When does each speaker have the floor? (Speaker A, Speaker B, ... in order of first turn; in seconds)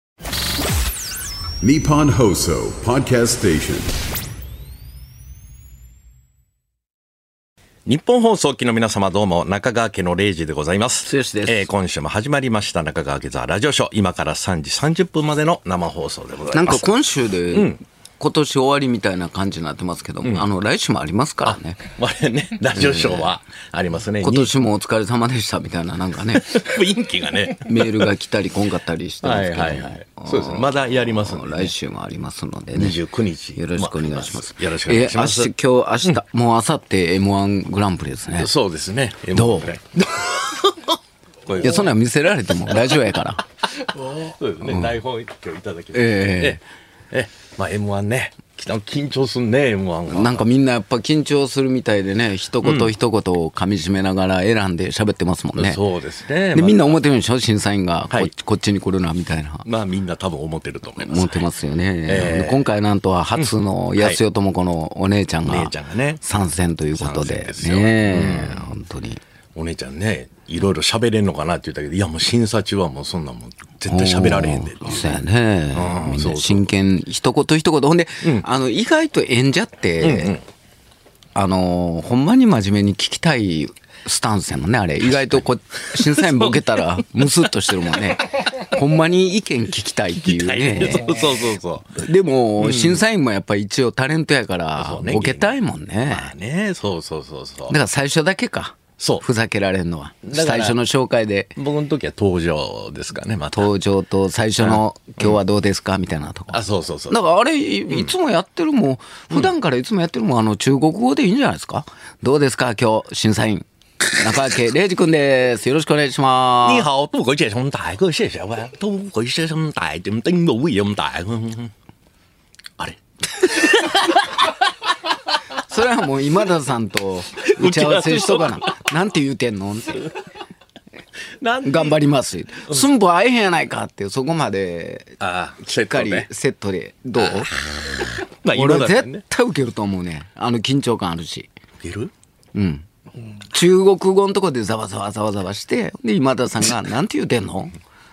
Speaker A: 1.6-3.9
Speaker B: 7.9-16.9, 17.5-17.8, 20.2-20.5, 21.5-24.5, 26.4-28.1, 29.2-31.7, 32.7-35.5, 38.4-39.8, 40.5-40.9, 41.5-42.0, 43.8-50.5, 52.6-52.9, 55.6-57.0, 59.6-61.5, 62.1-62.7, 63.4-64.2, 65.4-66.2, 67.0-68.7, 69.5-76.7, 80.0-80.4, 85.1-85.4, 85.9-86.8, 90.2-92.1, 92.6-93.0, 94.8-97.8, 99.0-99.3, 100.2-100.8, 101.6-103.7, 104.6-105.4, 106.5-107.2, 116.6-121.7, 122.8-124.5, 127.4-128.7, 131.4-132.0, 135.2-136.3, 137.2-139.2, 141.8-142.1
Speaker C: 11.1-11.7, 16.5-21.8, 22.7-23.3, 24.2-26.7, 27.6-33.0, 33.6-38.5, 39.4-40.3, 41.6-43.4, 45.9-46.6, 50.1-55.8, 56.5-59.6, 61.0-69.2, 73.9-80.3, 81.3-91.2, 92.0-96.3, 97.7-101.6, 103.5-116.9, 125.7-130.1, 131.6-135.2, 135.9-137.5, 138.5-141.5, 142.5-142.9, 143.5-147.8